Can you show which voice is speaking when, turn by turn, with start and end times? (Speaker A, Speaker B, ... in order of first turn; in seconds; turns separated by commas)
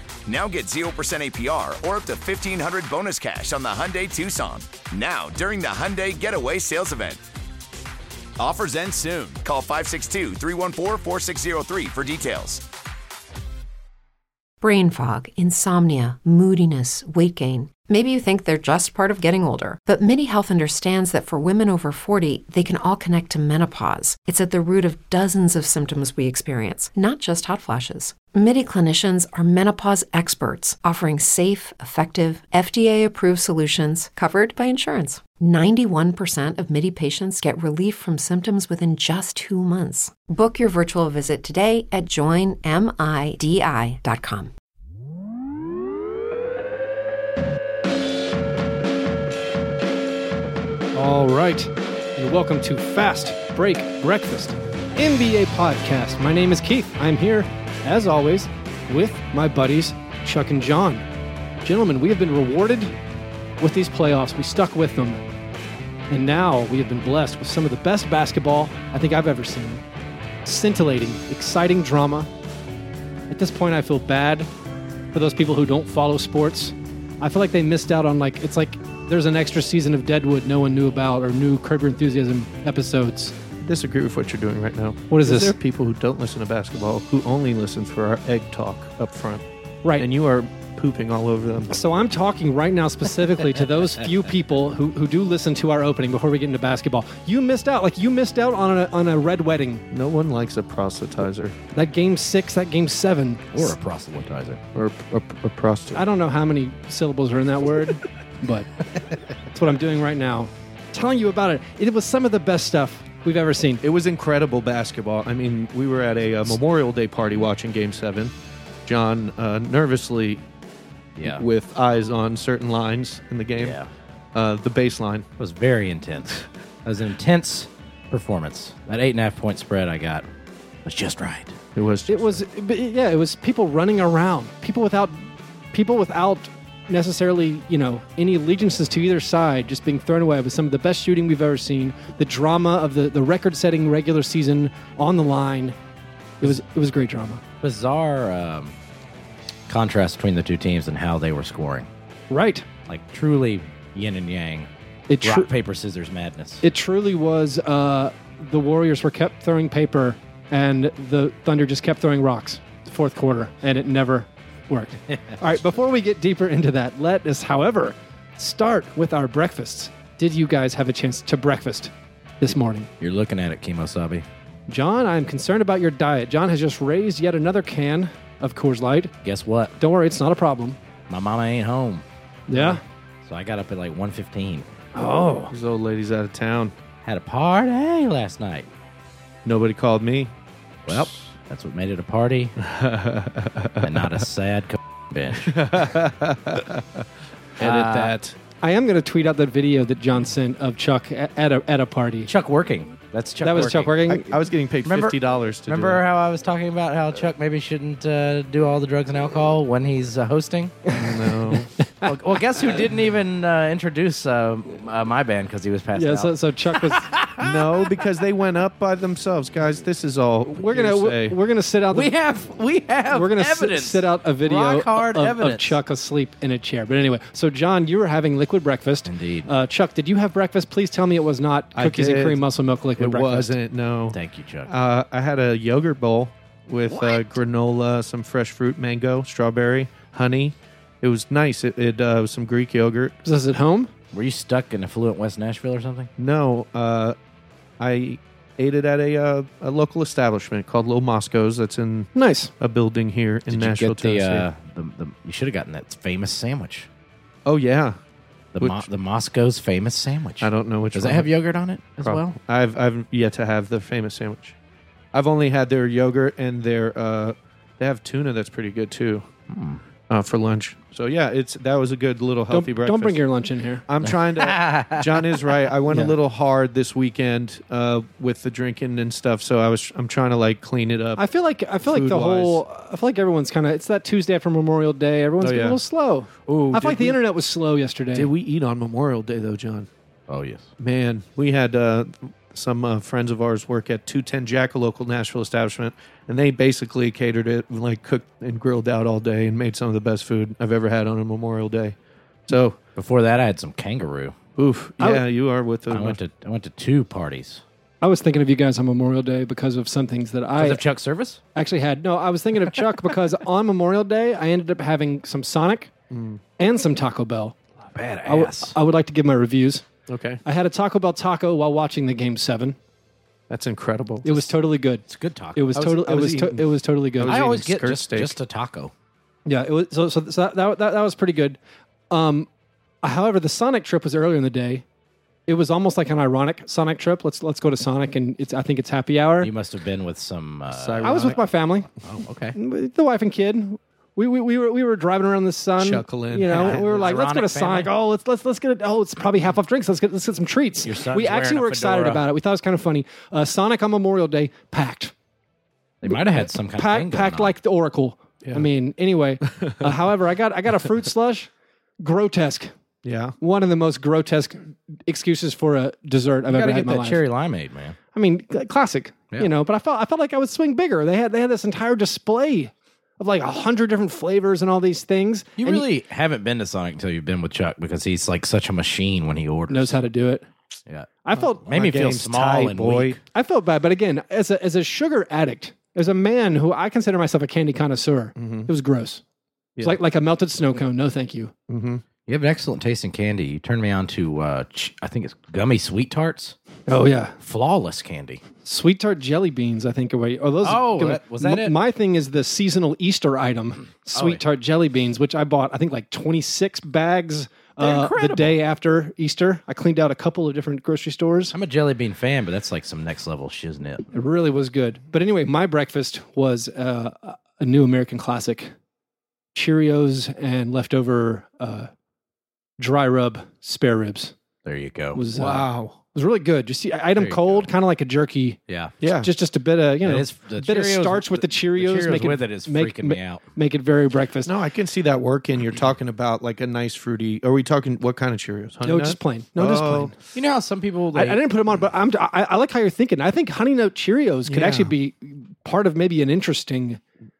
Speaker A: 0.2-7.2, Speaker A: 8.4-12.6, Speaker B: 14.6-44.5, Speaker C: 50.9-61.0, Speaker C: 61.6-62.9, Speaker C: 63.6-65.2, Speaker C: 66.1-69.8, Speaker C: 70.4-72.3, Speaker C: 73.3-74.5, Speaker C: 75.1-83.3, Speaker D: 83.6-89.4, Speaker C: 85.1-85.5, Speaker D: 90.0-91.7, Speaker C: 91.7-99.8, Speaker D: 99.9-101.5, Speaker C: 101.7-103.7, Speaker E: 103.5-104.6, Speaker D: 104.7-106.0, Speaker C: 105.9-108.7, Speaker C: 109.5-113.8, Speaker D: 113.8-118.3, Speaker D: 118.8-120.4, Speaker E: 121.2-121.4, Speaker D: 121.2-123.8, Speaker E: 123.6-123.9, Speaker D: 124.3-125.3, Speaker E: 125.4-130.3, Speaker E: 130.8-131.6, Speaker D: 131.7-132.4, Speaker C: 132.1-145.8, Speaker C: 146.4-147.4, Speaker E: 147.6-148.7, Speaker E: 149.7-151.9, Speaker C: 152.3-152.7, Speaker E: 152.9-154.7, Speaker C: 155.1-155.5, Speaker E: 155.2-156.6, Speaker C: 156.6-172.9, Speaker E: 173.0-174.2, Speaker C: 174.7-179.1, Speaker E: 179.2-179.8, Speaker C: 179.8-180.8, Speaker E: 181.1-182.0, Speaker C: 182.5-182.8, Speaker D: 182.5-182.8, Speaker E: 183.2-184.7, Speaker C: 184.9-185.5, Speaker D: 185.5-186.7, Speaker E: 187.0-188.7, Speaker D: 189.4-190.3, Speaker E: 190.9-192.5, Speaker D: 192.6-194.2, Speaker E: 193.8-195.7, Speaker D: 195.4-197.1, Speaker D: 197.6-198.3, Speaker E: 197.6-198.1, Speaker C: 198.6-202.3, Speaker E: 202.2-203.9, Speaker C: 203.4-204.3, Speaker D: 204.1-206.0, Speaker E: 204.8-210.8, Speaker C: 210.9-212.1, Speaker D: 210.9-211.7, Speaker E: 212.0-217.7, Speaker C: 215.9-217.1, Speaker D: 217.4-221.4, Speaker C: 220.6-222.1, Speaker E: 221.9-225.8, Speaker C: 223.1-233.6, Speaker E: 229.1-229.5, Speaker D: 231.7-232.4, Speaker D: 233.0-243.2, Speaker E: 234.1-234.7, Speaker E: 236.9-237.3, Speaker C: 243.2-243.9, Speaker E: 244.1-246.1, Speaker D: 246.2-247.2, Speaker D: 247.8-254.5, Speaker C: 252.1-252.5, Speaker E: 253.5-256.9, Speaker D: 257.4-258.0, Speaker E: 258.6-262.3, Speaker D: 258.6-258.8, Speaker D: 260.4-261.3, Speaker D: 262.0-264.6, Speaker D: 265.1-269.3, Speaker E: 269.5-269.8, Speaker D: 270.1-273.2, Speaker C: 272.5-273.8, Speaker D: 273.9-281.2, Speaker E: 274.0-275.4, Speaker C: 275.9-276.1, Speaker C: 281.2-288.3, Speaker D: 281.8-282.6, Speaker D: 285.4-285.8, Speaker D: 286.5-287.2, Speaker D: 288.1-289.9, Speaker E: 290.3-290.7, Speaker D: 290.8-301.9, Speaker D: 302.5-302.8, Speaker E: 302.9-304.3, Speaker D: 304.6-306.2, Speaker E: 305.9-307.6, Speaker C: 308.0-310.8, Speaker E: 310.6-311.4, Speaker C: 311.5-315.9, Speaker D: 316.1-316.4, Speaker C: 316.6-317.6, Speaker E: 317.9-318.7, Speaker C: 318.2-319.9, Speaker D: 320.1-320.4, Speaker C: 320.4-322.8, Speaker D: 323.5-324.4, Speaker C: 324.2-327.4, Speaker E: 325.1-325.8, Speaker D: 325.7-328.4, Speaker E: 327.3-328.9, Speaker C: 329.4-331.6, Speaker C: 332.1-332.5, Speaker C: 333.0-334.8, Speaker C: 335.5-339.5, Speaker E: 339.4-341.4, Speaker D: 340.7-341.4, Speaker C: 341.0-341.9, Speaker E: 342.0-342.6, Speaker C: 342.5-355.1, Speaker D: 345.8-347.1, Speaker E: 346.5-347.9, Speaker E: 350.8-352.2, Speaker E: 356.0-357.5, Speaker C: 356.0-362.7, Speaker D: 359.4-359.9, Speaker D: 363.0-363.4, Speaker C: 363.4-367.2, Speaker E: 366.5-368.0, Speaker C: 368.1-375.9, Speaker E: 375.6-380.0, Speaker C: 379.7-380.4, Speaker E: 380.9-381.1, Speaker C: 381.2-381.6, Speaker D: 381.5-383.2, Speaker E: 381.6-383.2, Speaker C: 383.3-389.2, Speaker D: 388.4-388.7, Speaker C: 389.8-391.5, Speaker D: 391.7-392.0, Speaker E: 392.3-396.6, Speaker C: 396.9-397.4, Speaker E: 397.4-398.4, Speaker C: 398.6-411.5, Speaker E: 400.6-401.7, Speaker E: 404.0-404.4, Speaker E: 407.8-408.6, Speaker E: 411.5-414.1, Speaker C: 414.1-418.7, Speaker C: 419.5-421.9, Speaker C: 422.8-424.3, Speaker E: 424.6-425.2, Speaker C: 425.1-428.6, Speaker D: 425.3-426.0, Speaker E: 427.1-427.7, Speaker E: 428.7-428.9, Speaker D: 429.0-429.3, Speaker C: 429.1-434.5, Speaker E: 430.0-433.4, Speaker D: 434.4-440.1, Speaker C: 438.8-440.1, Speaker E: 440.3-441.4, Speaker C: 441.1-447.0, Speaker D: 444.4-444.9